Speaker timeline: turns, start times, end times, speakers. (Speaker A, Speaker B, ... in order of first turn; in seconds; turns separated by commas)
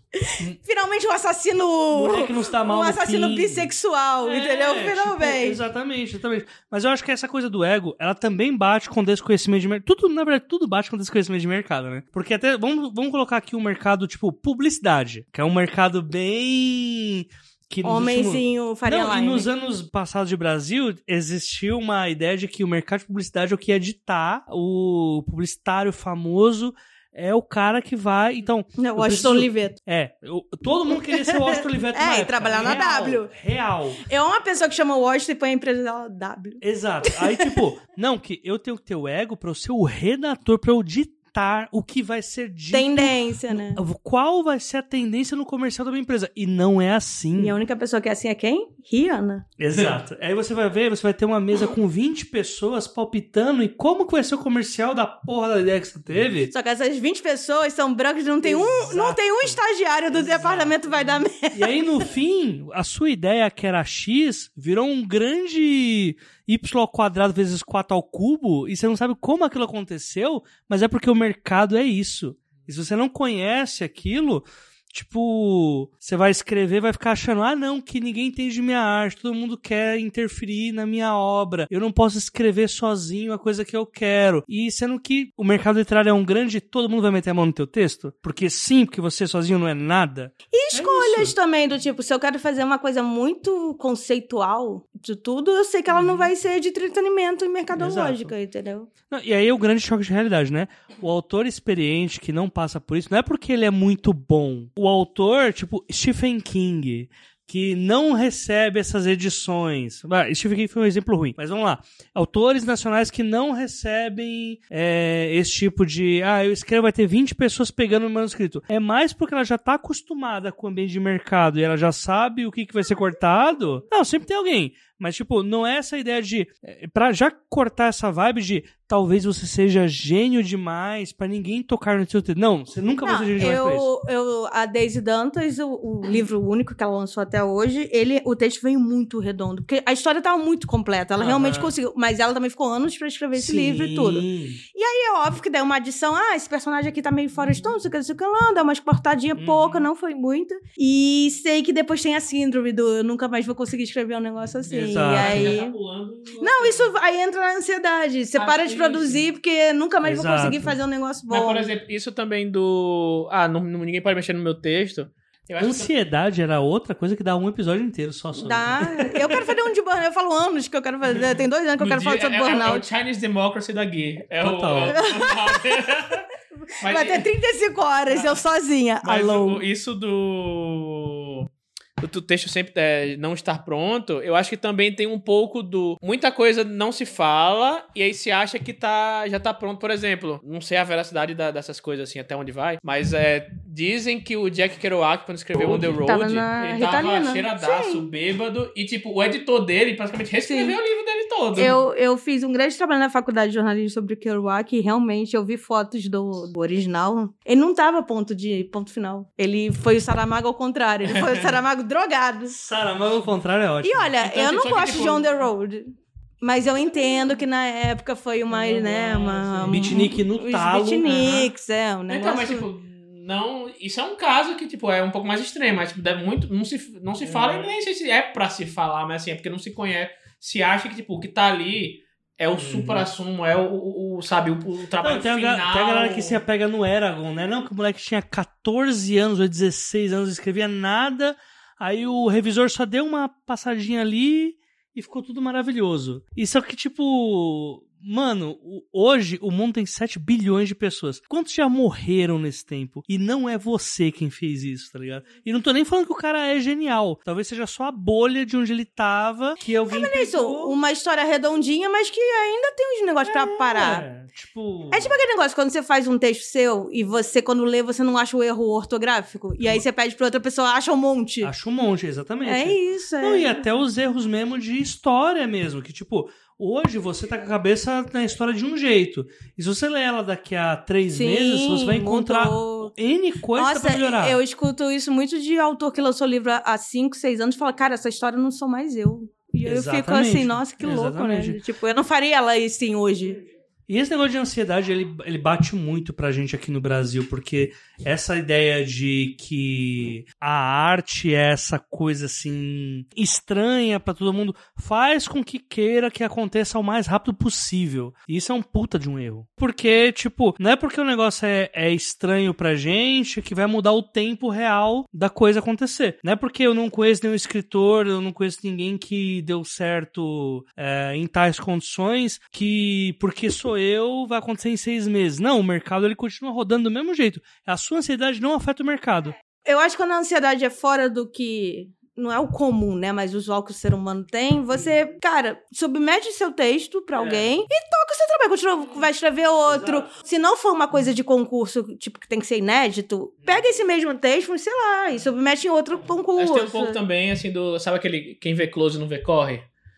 Speaker A: 0.1-5.6, Speaker B: 1.9-3.7, Speaker B: 4.2-34.0, Speaker A: 17.8-19.5, Speaker A: 28.8-29.8, Speaker A: 31.1-33.3, Speaker A: 34.0-37.5, Speaker B: 36.6-47.6, Speaker A: 42.7-43.8, Speaker A: 47.4-49.5, Speaker B: 49.6-56.5, Speaker A: 56.5-61.8, Speaker B: 58.4-59.6, Speaker B: 60.1-60.8, Speaker B: 61.5-91.3, Speaker A: 90.5-98.9, Speaker B: 95.9-96.3, Speaker B: 97.8-98.3, Speaker B: 99.1-133.9, Speaker A: 133.0-155.7, Speaker B: 141.2-141.7, Speaker B: 143.3-144.6, Speaker B: 149.4-149.9, Speaker C: 154.7-156.9, Speaker B: 154.8-155.6, Speaker A: 156.4-161.7, Speaker C: 158.4-159.2, Speaker B: 160.0-160.8, Speaker C: 161.3-165.9, Speaker B: 165.6-169.4, Speaker A: 168.4-172.9, Speaker C: 171.8-176.3, Speaker B: 174.4-175.0, Speaker A: 174.9-175.6, Speaker A: 176.8-179.6, Speaker C: 176.8-177.3, Speaker C: 178.1-178.4, Speaker C: 179.0-181.5, Speaker C: 182.0-201.8, Speaker A: 195.6-198.1, Speaker A: 200.4-200.8, Speaker A: 201.6-212.6, Speaker C: 211.1-211.6, Speaker B: 212.5-214.1, Speaker A: 213.8-222.7, Speaker C: 214.2-215.3, Speaker C: 218.5-220.0, Speaker B: 219.7-221.3, Speaker C: 221.1-221.5, Speaker C: 222.1-236.4, Speaker B: 227.2-227.7, Speaker B: 232.6-233.1, Speaker B: 235.0-260.8, Speaker A: 259.9-264.1, Speaker B: 263.3-265.2, Speaker A: 264.9-271.5, Speaker B: 271.4-284.4, Speaker A: 272.4-273.6, Speaker A: 281.1-282.9, Speaker A: 283.6-293.4, Speaker B: 289.6-291.6, Speaker B: 293.9-329.4, Speaker A: 329.6-347.0, Speaker B: 339.7-340.1, Speaker C: 346.4-349.7